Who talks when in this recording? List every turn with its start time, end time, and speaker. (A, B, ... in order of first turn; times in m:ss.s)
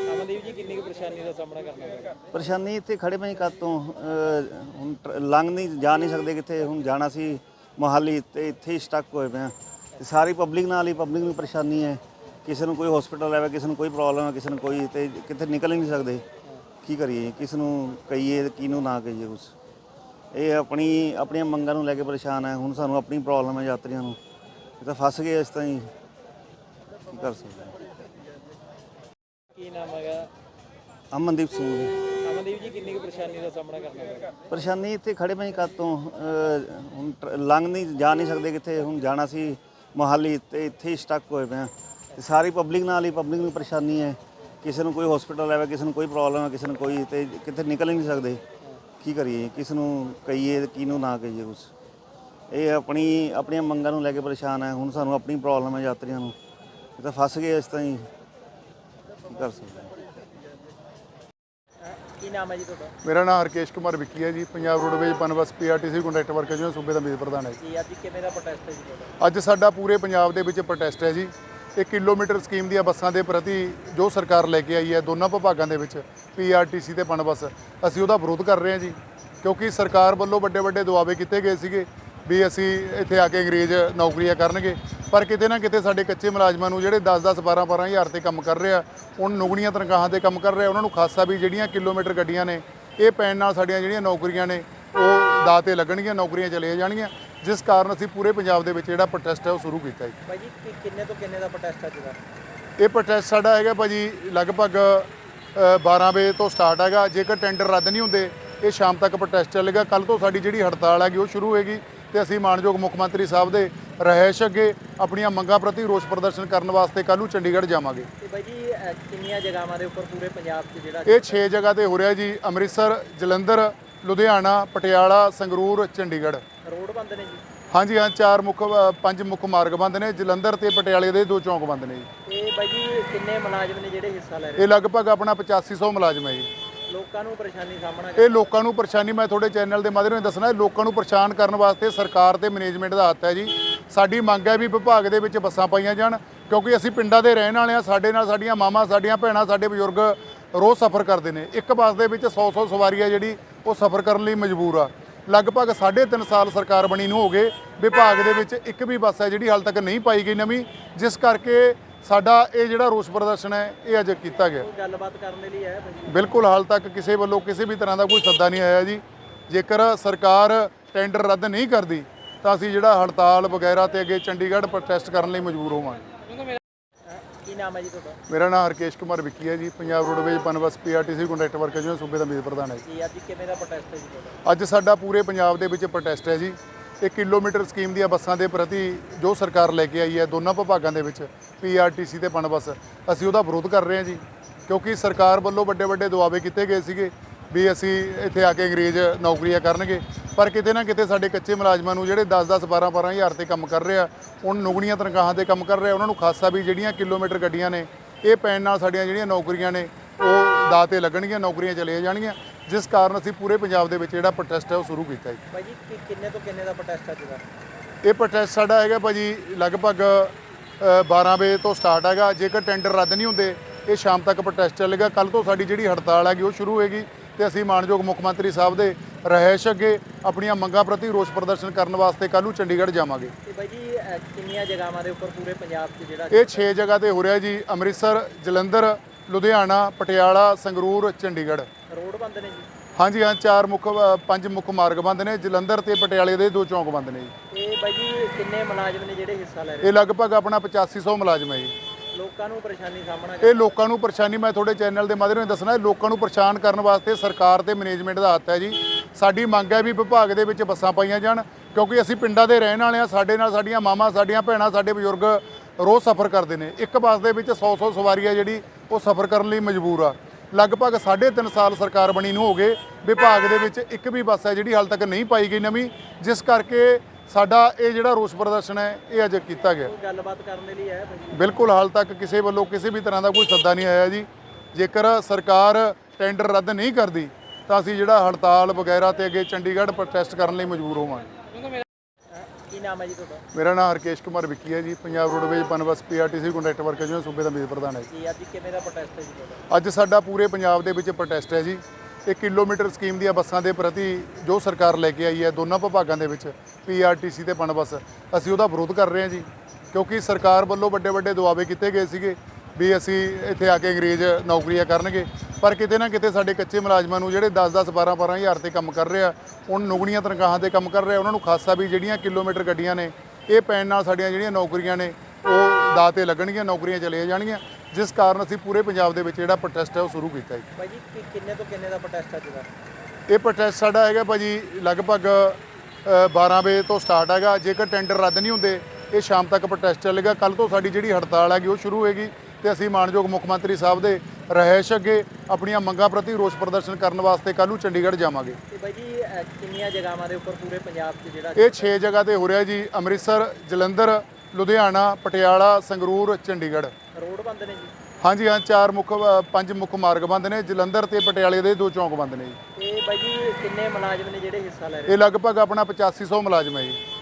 0:00.1-0:02.1 A
0:02.3-0:16.2 B
0:16.8-0:19.5 B
0:20.3-0:24.2 B
0:24.8-0:25.9 B
0:27.1-0:27.8 B
0:29.6-0:30.3 A
0:31.1-0:31.9 B
0:32.3-0:34.2 A
0:34.5-0:48.4 B
0:49.0-0:51.7 B
0:52.5-0:56.4 B
0:57.0-0:58.1 B
0:59.2-1:00.0 B
1:01.8-1:02.9 A
1:03.0-1:07.6 C
1:07.6-1:09.1 A
1:09.2-1:40.2 C
1:40.3-1:42.2 A
1:42.8-1:58.1 C
1:58.2-2:01.4 A
2:01.1-2:06.4 C
2:06.6-2:07.4 A
2:07.7-2:12.1 C
2:12.3-2:14.7 A
2:14.6-2:16.5 C
2:16.9-2:18.5 A
2:18.2-2:44.7 C
2:44.6-2:46.1 A
2:46.1-2:56.1 C
2:57.1-2:58.2 A
2:58.3-3:02.8 C
3:02.8-3:04.4 A
3:04.4-3:35.4 C
3:35.5-3:37.4 A
3:38.0-3:53.3 C
3:53.4-3:56.7 A
3:56.3-4:01.7 C
4:01.9-4:02.7 A
4:03.0-4:07.3 C
4:07.5-4:09.9 A
4:09.8-4:11.7 C
4:12.1-4:13.8 A
4:13.4-4:39.9 C
4:39.8-4:41.4 A
4:41.3-4:51.3 C
4:52.3-4:53.4 A
4:53.5-4:58.1 C
4:58.1-4:59.6 A
4:59.7-5:30.6 C
5:30.8-5:32.7 A
5:33.3-5:48.6 C
5:48.7-5:51.9 A
5:51.6-5:56.9 C
5:57.1-5:57.9 A
5:58.2-6:02.6 C
6:02.8-6:05.2 A
6:05.1-6:07.0 C